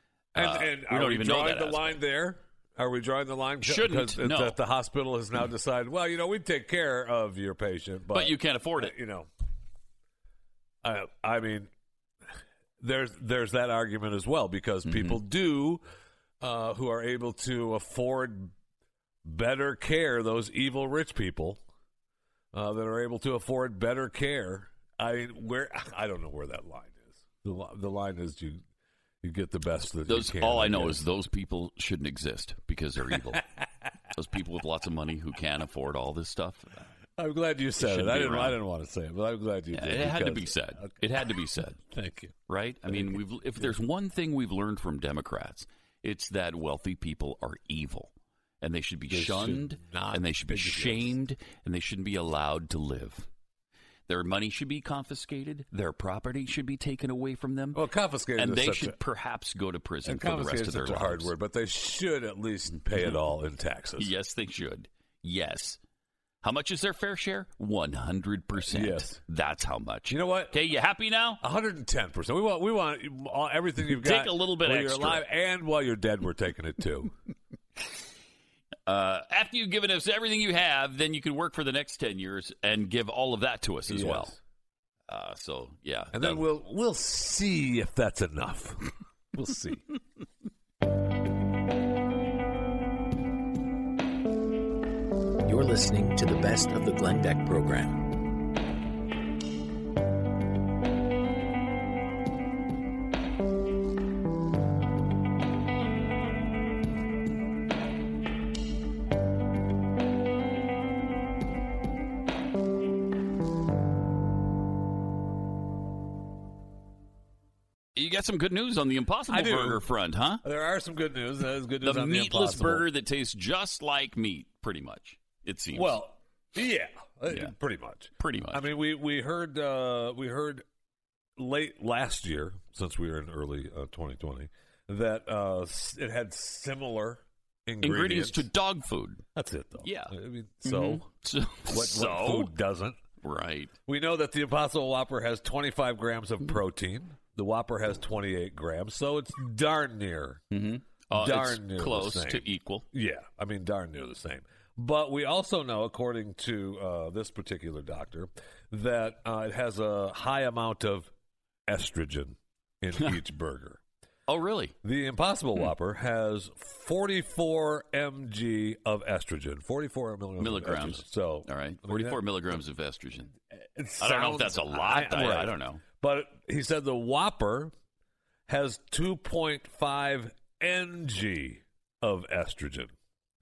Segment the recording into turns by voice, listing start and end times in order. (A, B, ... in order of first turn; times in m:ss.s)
0:00.3-0:09.3 A
0:00.4-0:02.0 B
0:03.6-0:04.6 B
0:08.1-0:08.9 B
0:10.8-0:11.7 A
0:12.8-0:15.8 A
0:14.8-0:15.2 B
0:16.4-0:18.5 A
0:19.2-0:21.6 A
0:22.5-0:28.6 A
0:29.2-0:31.0 A
0:30.0-0:33.4 B
0:33.1-0:33.6 A
0:34.1-0:36.8 B
0:37.2-0:42.3 A
0:37.8-0:38.6 B
0:39.7-0:41.8 B
0:42.5-0:53.3 B
0:42.9-0:43.7 A
0:49.1-0:51.1 A
0:54.1-0:57.8 B
0:57.7-0:59.0 A
0:58.3-1:01.3 B
1:00.0-1:04.1 A
1:04.0-1:05.8 B
1:06.4-1:11.4 B
1:08.6-1:09.2 A
1:10.1-1:10.5 A
1:11.4-1:17.1 A
1:13.8-1:15.2 B
1:18.8-1:24.4 B
1:23.9-1:24.4 A
1:25.1-1:26.5 B
1:26.1-1:29.8 A
1:35.4-1:38.0 C
1:57.9-2:00.4 B
1:59.3-1:59.9 A
2:00.4-2:02.9 A
2:01.8-2:06.0 B
2:05.7-2:10.6 A
2:08.2-2:08.6 B
2:11.4-2:18.5 A
2:17.8-2:19.2 B
2:19.3-2:21.1 A
2:19.8-2:22.5 B
2:21.6-2:23.0 A
2:23.2-2:23.7 B
2:23.8-2:30.4 A
2:30.5-2:32.8 B
2:31.1-2:41.1 A
2:41.7-2:43.8 A
2:44.3-2:44.7 B
2:44.8-2:52.6 A
2:50.4-2:53.3 B
2:53.5-2:57.7 A
2:54.0-2:55.8 B
2:58.5-3:02.9 A